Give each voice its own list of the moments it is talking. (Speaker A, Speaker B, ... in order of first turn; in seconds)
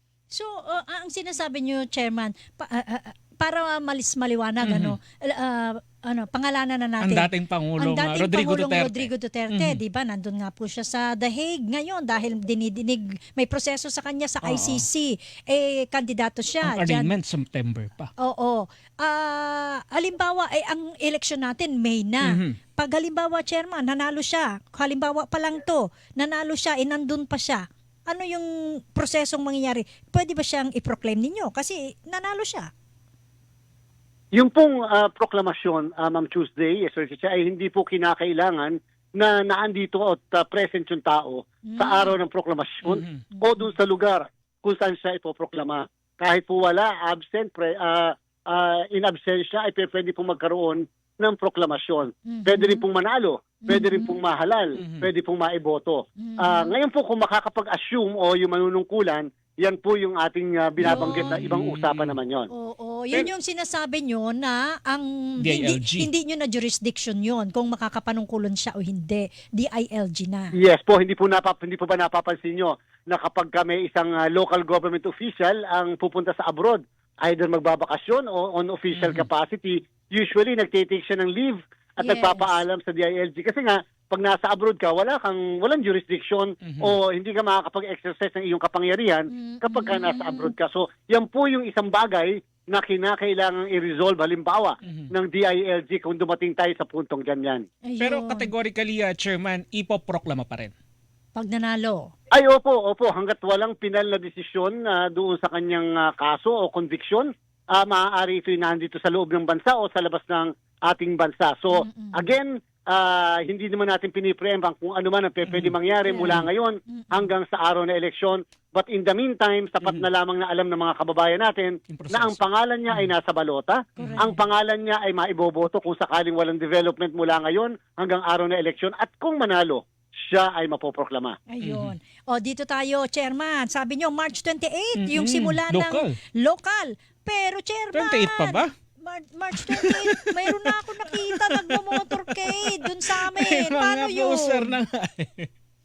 Speaker A: 0.3-17.1, 18.2-32.7, 41.6-42.1, 52.3-52.8, 53.6-54.2, 56.2-56.7, 60.8-61.4, 62.5-70.5, 82.0-82.5, 89.3-90.5, 97.8-98.5, 101.3-102.1, 111.8-112.2, 116.0-117.3, 124.0-124.3, 131.5-144.7
Speaker B: 4.6-5.0, 7.0-9.8, 14.4-14.8, 16.6-18.1, 22.2-22.6, 42.8-43.2, 54.8-55.1, 60.8-62.1, 65.4-66.1, 78.9-79.3, 86.6-86.9, 94.8-95.1, 98.0-100.7, 115.5-116.5, 121.9-123.1, 124.0-124.3, 131.6-131.9, 135.0-136.1, 137.9-138.7, 139.6-145.5
Speaker C: 34.3-62.5, 70.5-97.6, 102.3-131.4